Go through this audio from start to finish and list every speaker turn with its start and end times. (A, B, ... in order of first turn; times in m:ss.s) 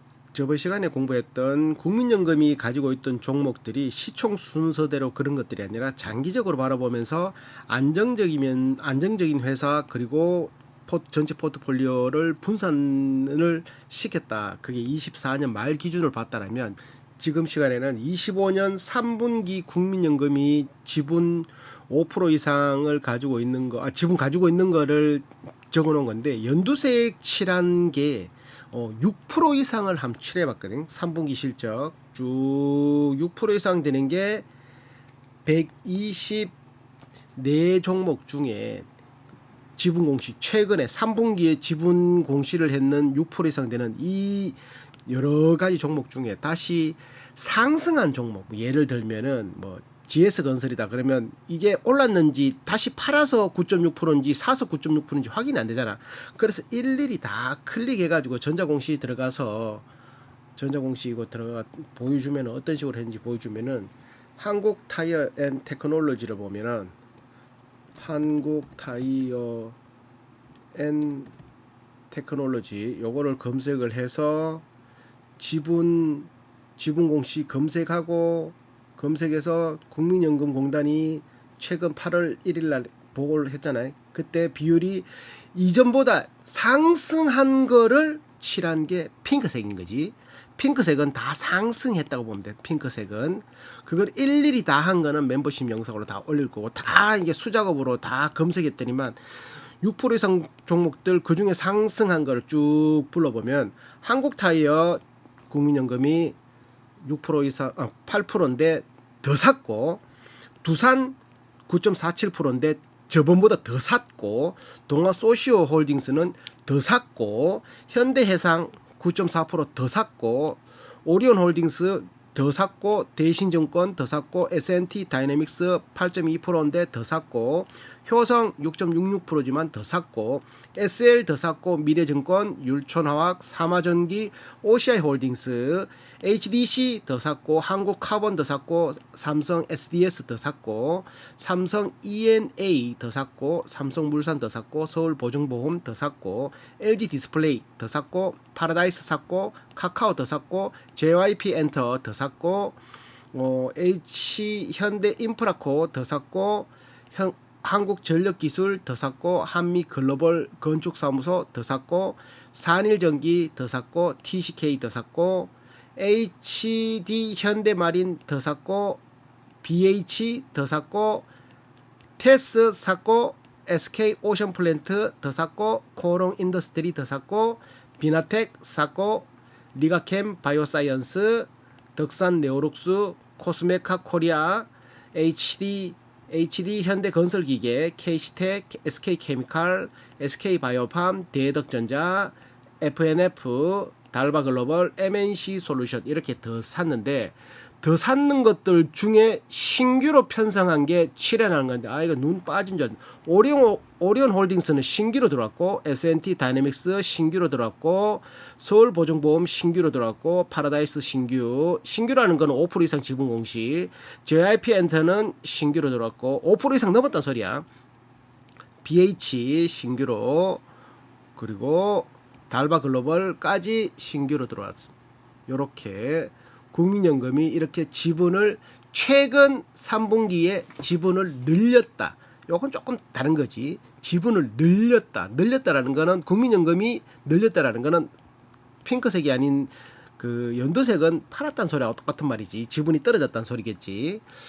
0:00.3-0:34.4 A
0:35.4-0:36.5 A
0:37.4-0:38.9 A
0:39.8-0:59.8 A
1:00.6-1:06.9 A
1:08.0-1:09.8 A
1:10.7-1:11.3 A
1:12.1-1:14.6 A
1:15.4-1:39.2 A
1:39.8-1:46.4 A
1:47.0-1:50.0 A
1:50.6-1:51.2 A
1:51.7-2:32.8 A
2:33.3-2:49.0 A
2:49.6-2:51.2 A
2:52.2-3:37.6 A
3:38.8-3:40.6 A
3:41.4-3:44.9 A
3:45.5-3:58.1 A
3:58.8-4:04.2 A